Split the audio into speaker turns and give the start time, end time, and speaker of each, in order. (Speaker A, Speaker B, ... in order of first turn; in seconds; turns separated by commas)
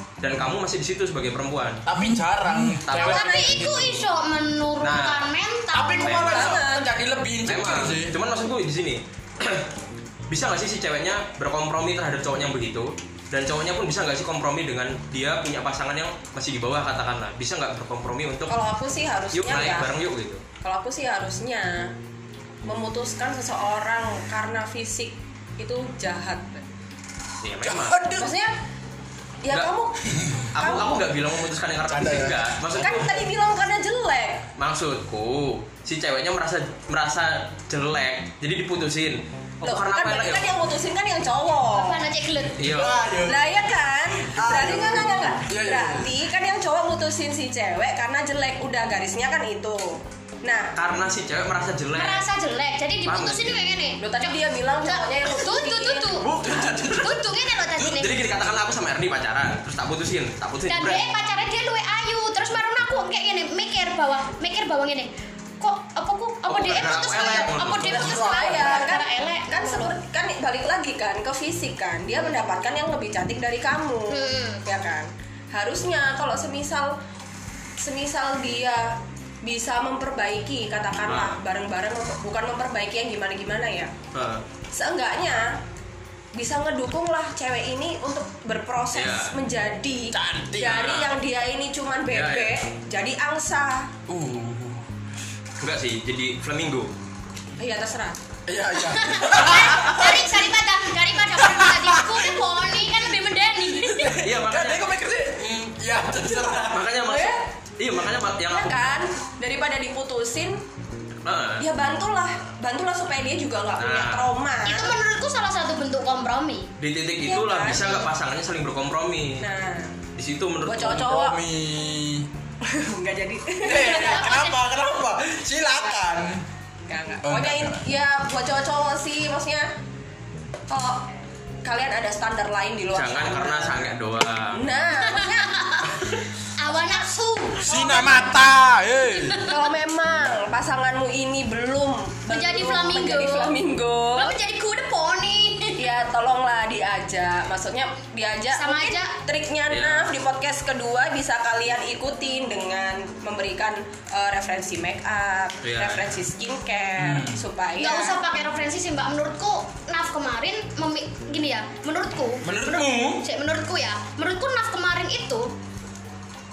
Speaker A: 0.2-1.8, Speaker B: 1.9-4.0, Speaker A: 2.9-4.0, Speaker C: 2.9-6.6, Speaker D: 3.0-3.6, Speaker A: 4.8-5.3, Speaker B: 5.7-8.1, Speaker A: 6.0-6.3, Speaker D: 6.3-6.9, Speaker A: 7.4-9.7, Speaker A: 10.3-18.5, Speaker D: 18.5-19.9, Speaker A: 19.3-20.4, Speaker D: 20.6-21.9, Speaker D: 22.6-26.6, Speaker A: 27.4-28.0, Speaker B: 27.6-28.3, Speaker D: 28.2-28.5, Speaker D: 29.4-31.1, Speaker B: 30.1-30.5, Speaker A: 30.5-33.1, Speaker B: 31.9-33.0, Speaker D: 32.7-34.5, Speaker A: 34.6-40.5, Speaker D: 39.6-42.0, Speaker C: 41.6-42.6, Speaker B: 42.5-43.5, Speaker A: 42.6-43.0, Speaker D: 43.2-50.7, Speaker B: 44.1-46.2, Speaker A: 50.7-52.2, Speaker C: 51.9-56.3, Speaker A: 53.0-53.6, Speaker D: 54.0-56.2, Speaker A: 56.2-57.3, Speaker C: 56.8-58.1, Speaker B: 57.8-58.2, Speaker A: 57.9-61.0, Speaker C: 60.7-70.0, Speaker A: 66.5-68.2, Speaker B: 67.6-69.0, Speaker D: 67.9-76.9, Speaker C: 74.1-74.6, Speaker D: 77.8-83.9, Speaker A: 81.1-81.4, Speaker A: 84.1-84.4, Speaker D: 84.7-85.6, Speaker D: 86.3-93.9, Speaker A: 88.9-89.3, Speaker B: 90.1-90.9, Speaker A: 90.7-91.1, Speaker A: 92.1-92.6, Speaker B: 94.1-94.8, Speaker A: 95.6-96.9, Speaker D: 97.6-98.2, Speaker B: 98.5-100.5, Speaker C: 98.8-104.2, Speaker B: 101.2-103.0, Speaker B: 103.8-106.9, Speaker A: 104.1-104.9, Speaker A: 106.7-108.7, Speaker D: 107.0-107.4, Speaker D: 108.5-110.6, Speaker A: 111.2-111.7, Speaker D: 111.6-115.0, Speaker A: 113.8-114.3, Speaker C: 114.6-116.7, Speaker A: 116.8-119.4, Speaker D: 117.2-117.9, Speaker C: 117.7-118.1, Speaker D: 119.4-120.0, Speaker A: 120.2-121.0, Speaker D: 120.7-121.4, Speaker B: 120.7-122.3, Speaker D: 122.6-124.2, Speaker B: 123.6-126.4, Speaker C: 123.7-124.6, Speaker D: 126.9-129.7, Speaker B: 127.2-127.8, Speaker D: 130.7-131.1, Speaker D: 131.6-133.8, Speaker A: 132.9-134.7, Speaker D: 134.5-135.5, Speaker C: 134.9-138.5, Speaker B: 137.6-139.5, Speaker C: 139.0-139.7, Speaker D: 139.4-144.4, Speaker C: 142.3-143.6, Speaker C: 144.1-145.9, Speaker D: 145.8-158.2, Speaker C: 148.5-149.1, Speaker A: 149.7-150.1, Speaker A: 155.6-156.2, Speaker B: 157.0-157.4, Speaker C: 157.8-165.5, Speaker B: 162.4-163.2